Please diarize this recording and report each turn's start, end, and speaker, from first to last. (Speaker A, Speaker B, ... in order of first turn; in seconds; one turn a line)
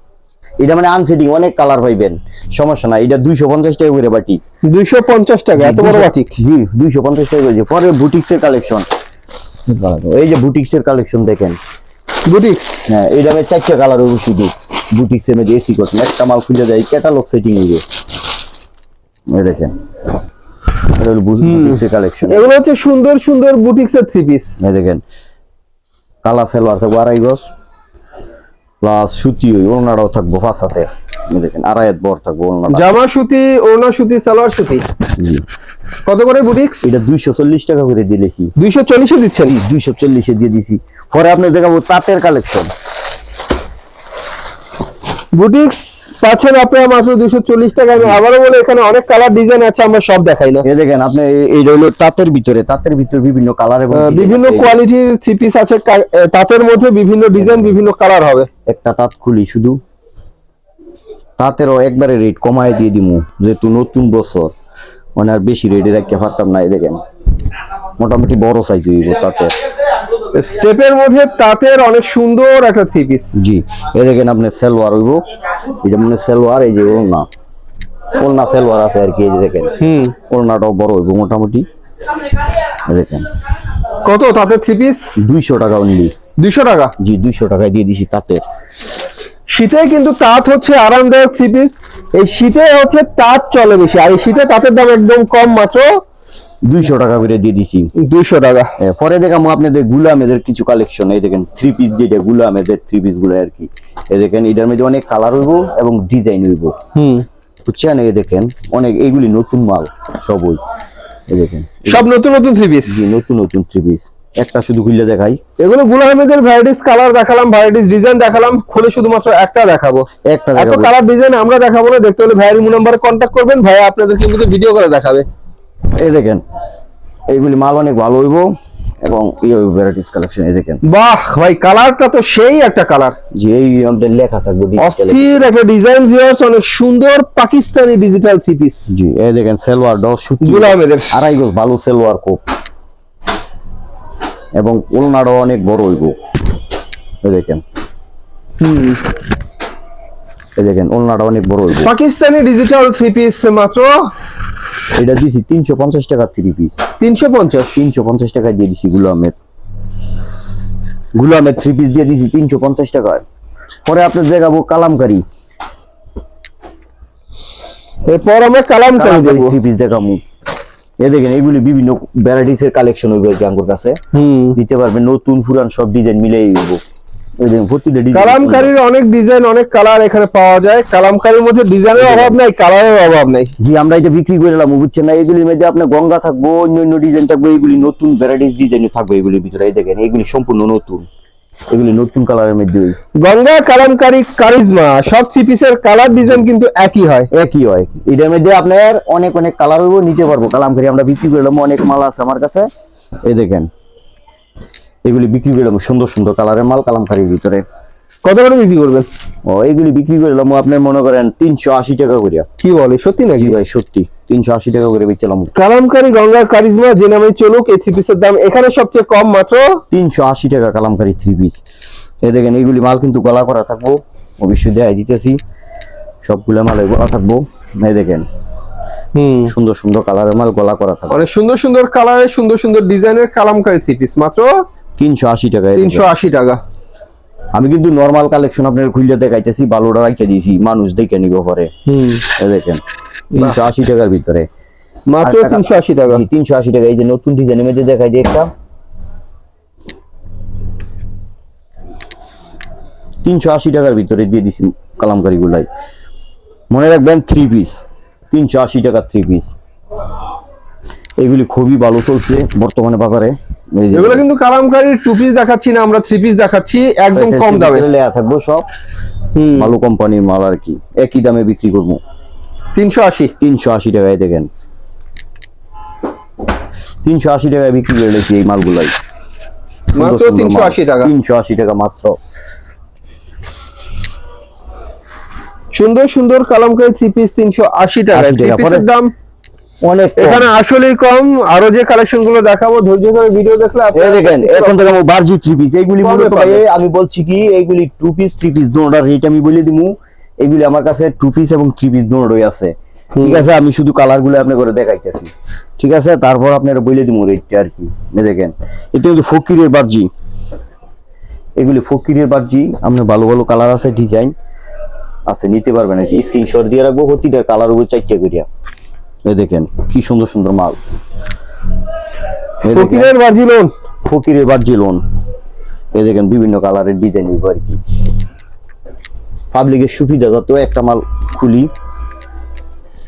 Speaker A: 0.6-4.4
Speaker B: 4.6-6.3
Speaker A: 5.6-8.9
Speaker A: 9.7-11.6
Speaker B: 12.3-12.9
Speaker A: 12.9-17.8
Speaker A: 19.3-19.8
Speaker A: 20.9-22.5
Speaker B: 21.4-24.7
Speaker A: 24.6-25.0
Speaker A: 26.2-27.5
Speaker A: 28.8-32.9
Speaker B: 32.7-34.8
Speaker A: 35.2-35.4
Speaker B: 36.1-36.9
Speaker A: 36.8-38.5
Speaker B: 38.6-39.5
Speaker A: 39.5-42.7
Speaker B: 45.3-50.7
Speaker A: 50.6-54.8
Speaker B: 53.9-58.5
Speaker A: 57.4-57.8
Speaker A: 58.7-59.8
Speaker A: 61.4-64.5
Speaker A: 65.2-67.0
Speaker A: 68.0-69.5
Speaker B: 70.3-73.4
Speaker A: 73.4-75.2
Speaker A: 75.8-77.3
Speaker A: 78.2-79.7
Speaker B: 79.8-80.2
Speaker A: 80.3-81.7
Speaker A: 82.8-83.3
Speaker B: 84.0-85.2
Speaker A: 85.2-86.1
Speaker B: 86.4-86.9
Speaker A: 87.0-88.4
Speaker B: 89.5-96.0
Speaker A: 96.7-97.9
Speaker B: 98.0-98.7
Speaker A: 98.8-106.8
Speaker B: 107.0-107.3
Speaker A: 107.7-110.6
Speaker A: 111.3-112.0
Speaker B: 111.9-113.1
Speaker A: 112.9-115.4
Speaker B: 115.6-125.3
Speaker A: 120.3-120.9
Speaker A: 125.9-126.4
Speaker A: 127.3-130.8
Speaker B: 130.8-133.2
Speaker A: 133.4-135.5
Speaker B: 134.8-138.9
Speaker A: 138.9-142.4
Speaker B: 140.4-141.2
Speaker A: 144.6-146.1
Speaker A: 147.2-147.6
Speaker B: 148.6-149.0
Speaker A: 150.6-151.9
Speaker B: 151.8-154.1
Speaker A: 154.9-156.8
Speaker B: 157.0-157.8
Speaker A: 157.8-159.3
Speaker A: 161.2-163.2
Speaker A: 163.9-165.2
Speaker B: 168.1-169.5
Speaker A: 169.0-170.2
Speaker A: 171.0-174.0
Speaker B: 174.1-174.6
Speaker A: 174.5-176.8
Speaker A: 177.4-178.7
Speaker B: 178.1-183.5
Speaker A: 182.0-182.4
Speaker A: 183.6-191.1
Speaker A: 191.7-193.0
Speaker B: 193.2-197.3
Speaker A: 197.3-202.7
Speaker A: 203.2-203.7
Speaker A: 205.1-207.6
Speaker B: 208.2-209.1
Speaker A: 209.5-212.5
Speaker B: 212.6-213.6
Speaker A: 213.4-215.5
Speaker B: 215.6-219.8
Speaker A: 219.9-221.6
Speaker A: 222.2-225.4
Speaker A: 226.2-228.3
Speaker B: 229.2-229.5
Speaker A: 229.5-231.2
Speaker B: 231.1-234.6
Speaker A: 235.0-236.1
Speaker B: 235.8-236.6
Speaker A: 237.6-241.7
Speaker B: 241.9-242.2
Speaker A: 242.4-242.8
Speaker B: 243.3-243.6
Speaker A: 243.3-244.5
Speaker B: 245.1-246.2
Speaker A: 245.2-248.5
Speaker A: 253.2-255.7
Speaker A: 256.7-259.6
Speaker A: 261.2-264.2
Speaker B: 263.9-267.9
Speaker A: 267.1-268.7
Speaker B: 269.4-269.7
Speaker A: 269.6-272.0
Speaker B: 272.8-273.3
Speaker A: 273.4-274.5
Speaker A: 277.0-278.9
Speaker B: 279.9-281.1
Speaker A: 279.9-282.2
Speaker B: 285.8-289.1
Speaker A: 288.1-288.9
Speaker A: 289.8-290.5
Speaker B: 290.2-295.0
Speaker A: 293.9-310.1
Speaker B: 296.0-296.6
Speaker B: 303.2-303.4
Speaker A: 311.6-314.3
Speaker A: 315.3-318.5
Speaker A: 319.3-320.8
Speaker A: 322.6-323.1
Speaker B: 322.7-323.7
Speaker A: 324.1-325.0
Speaker A: 325.9-327.8
Speaker A: 329.5-331.7